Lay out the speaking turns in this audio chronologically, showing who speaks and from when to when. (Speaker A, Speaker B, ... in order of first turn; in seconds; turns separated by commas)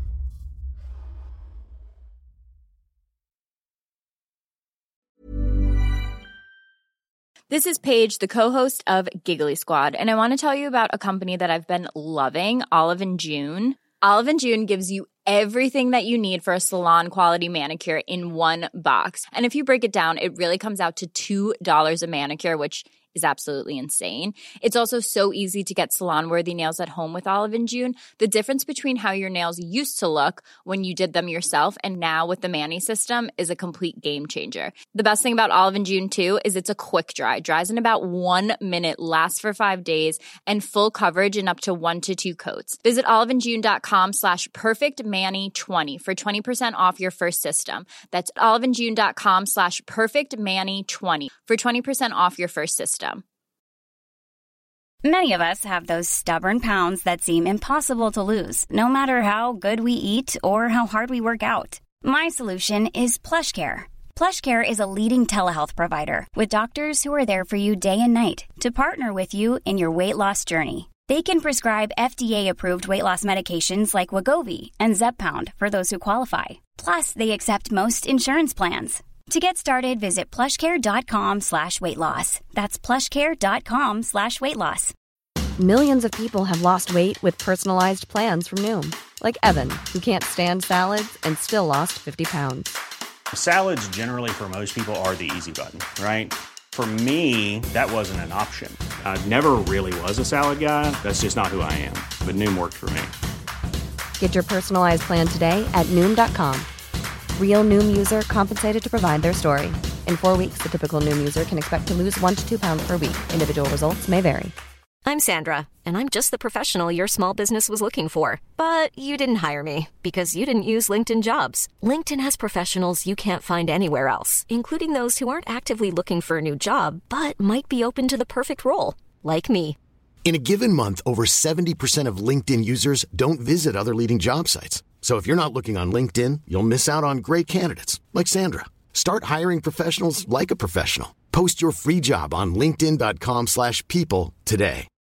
Speaker A: 7.5-53.2, Speaker B: 55.0-84.9, Speaker C: 85.6-92.8, Speaker D: 93.3-103.1, Speaker C: 104.2-106.7, Speaker C: 107.4-114.5, Speaker E: 115.0-129.8, Speaker F: 130.2-144.9